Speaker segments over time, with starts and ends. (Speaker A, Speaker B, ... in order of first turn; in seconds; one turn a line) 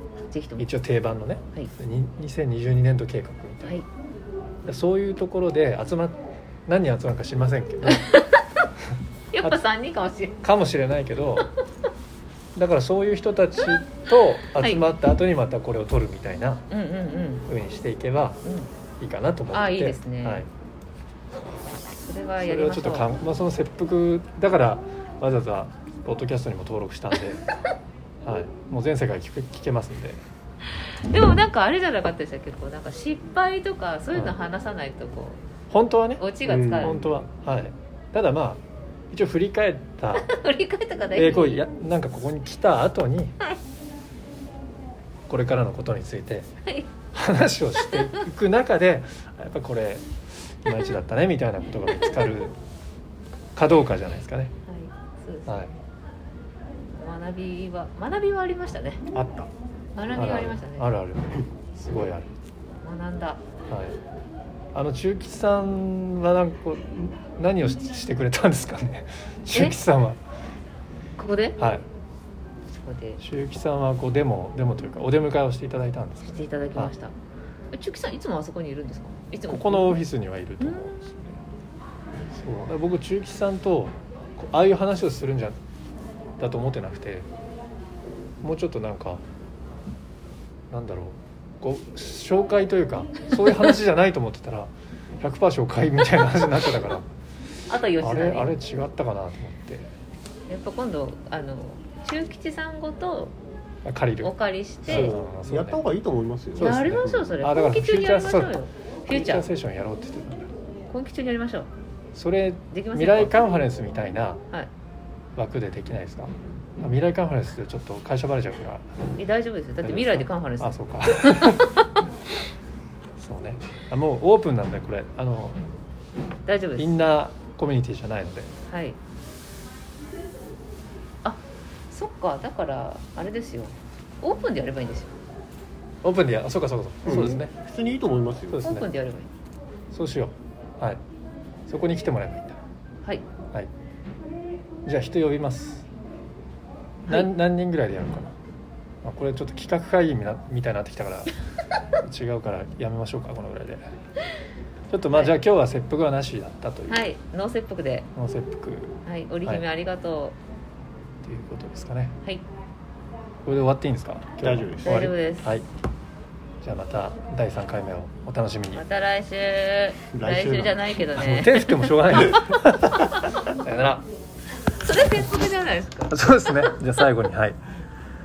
Speaker A: 0.3-0.7
Speaker B: 0.6-3.8
Speaker B: 4.6-8.1
Speaker A: 7.8-8.6
Speaker A: 9.3-10.4
Speaker B: 10.4-11.5
Speaker B: 12.6-16.6
Speaker A: 14.5-14.8
Speaker A: 16.7-17.5
Speaker B: 17.5-18.4
Speaker A: 18.4-18.7
Speaker B: 19.0-20.5
Speaker A: 19.5-20.4
Speaker A: 22.0-23.2
Speaker B: 22.4-27.4
Speaker B: 28.2-30.2
Speaker A: 30.7-35.4
Speaker B: 34.1-34.4
Speaker B: 35.7-40.2
Speaker A: 36.2-37.0
Speaker C: 36.4-37.3
Speaker A: 40.1-41.6
Speaker B: 41.1-43.4
Speaker B: 45.3-46.5
Speaker A: 46.6-46.9
Speaker B: 47.1-52.6
Speaker A: 47.9-48.1
Speaker A: 51.9-52.3
Speaker B: 53.5-54.5
Speaker A: 54.6-55.8
Speaker A: 56.9-59.0
Speaker C: 59.1-59.5
Speaker A: 59.9-60.9
Speaker B: 60.1-62.4
Speaker A: 62.8-63.4
Speaker B: 63.7-64.0
Speaker B: 64.7-70.2
Speaker A: 69.5-69.8
Speaker A: 71.2-71.6
Speaker B: 71.6-71.8
Speaker A: 72.7-73.2
Speaker B: 73.2-76.9
Speaker A: 76.2-77.1
Speaker A: 77.7-80.0
Speaker B: 79.5-81.4
Speaker A: 80.6-80.9
Speaker B: 82.3-85.6
Speaker B: 86.4-87.3
Speaker B: 88.4-89.2
Speaker B: 90.7-97.1
Speaker A: 97.7-98.5
Speaker B: 98.0-99.9
Speaker A: 100.5-103.3
Speaker B: 103.8-104.3
Speaker A: 104.2-105.2
Speaker B: 104.8-105.8
Speaker C: 104.8-107.4
Speaker A: 106.6-109.5
Speaker B: 106.6-110.5
Speaker A: 110.9-111.7
Speaker B: 112.1-114.4
Speaker A: 112.7-113.5
Speaker B: 115.3-119.0
Speaker A: 119.2-121.8
Speaker B: 119.8-121.8
Speaker B: 123.2-125.6
Speaker A: 126.5-127.0
Speaker B: 126.8-128.5
Speaker A: 128.7-129.0
Speaker A: 131.2-135.1
Speaker B: 136.0-137.5
Speaker C: 137.0-138.7
Speaker B: 138.5-138.9
Speaker A: 138.6-139.3
Speaker B: 139.9-141.0
Speaker B: 141.7-142.6
Speaker B: 144.8-145.8
Speaker B: 147.1-148.3
Speaker B: 149.0-151.3
Speaker B: 152.0-153.8
Speaker B: 154.9-157.1
Speaker A: 156.9-158.1
Speaker B: 158.1-159.6
Speaker A: 159.1-160.3
Speaker B: 161.2-162.2
Speaker B: 163.4-165.7
Speaker C: 164.4-165.1
Speaker A: 164.8-165.6
Speaker B: 166.6-168.8
Speaker A: 168.7-171.9
Speaker C: 170.1-170.9
Speaker B: 171.2-174.0
Speaker A: 174.7-176.7
Speaker B: 176.1-177.6